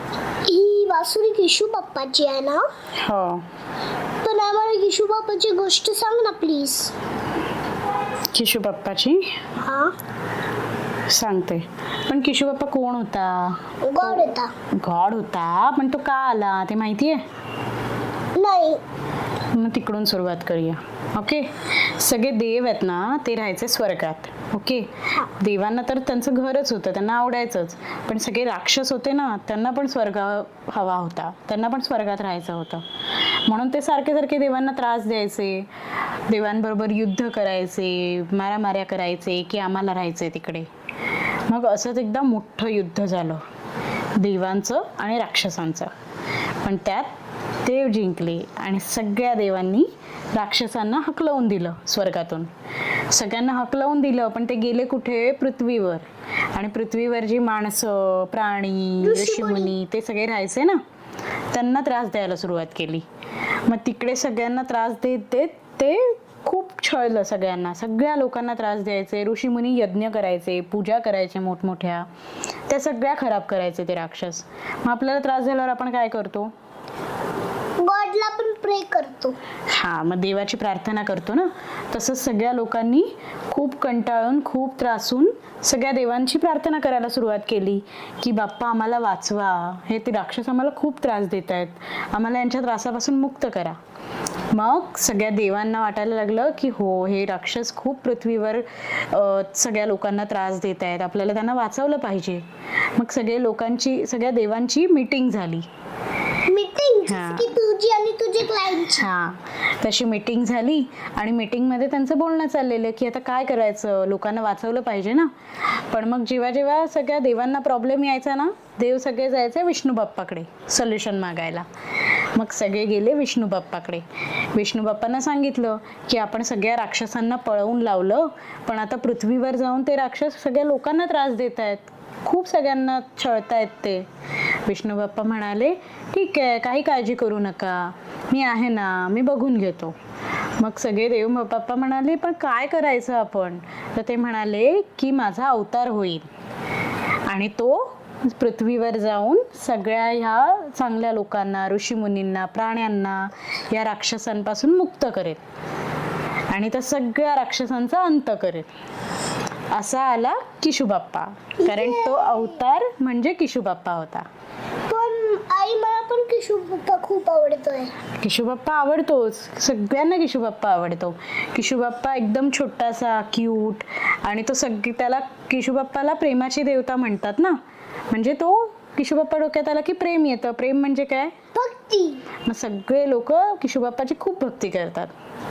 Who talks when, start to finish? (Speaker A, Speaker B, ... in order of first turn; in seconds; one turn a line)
Speaker A: 0.4-2.7
Speaker B: 3.0-3.5
Speaker A: 4.2-6.9
Speaker B: 8.3-9.2
Speaker A: 9.6-9.9
Speaker B: 11.1-17.2
Speaker A: 13.9-14.5
Speaker A: 18.4-18.8
Speaker B: 19.5-32.9
Speaker B: 33.5-35.7
Speaker B: 36.3-40.7
Speaker B: 41.5-43.4
Speaker B: 44.1-45.9
Speaker B: 46.6-47.1
Speaker B: 47.6-52.5
Speaker B: 53.1-60.8
Speaker A: 59.0-59.7
Speaker B: 61.5-63.1
Speaker B: 63.7-72.1
Speaker B: 72.7-76.5
Speaker A: 77.8-79.4
Speaker B: 79.7-93.8
Speaker B: 94.5-102.4
Speaker B: 103.0-105.7
Speaker A: 106.5-109.1
Speaker B: 107.1-107.5
Speaker B: 108.9-121.7
Speaker B: 122.3-134.1
Speaker B: 134.7-140.0
Speaker B: 140.6-146.3
Speaker B: 147.3-155.4
Speaker B: 156.5-158.7
Speaker B: 159.7-164.3
Speaker A: 161.6-162.5
Speaker A: 164.9-167.9
Speaker B: 168.2-177.6
Speaker B: 178.1-181.3
Speaker A: 181.6-182.2
Speaker B: 182.4-185.2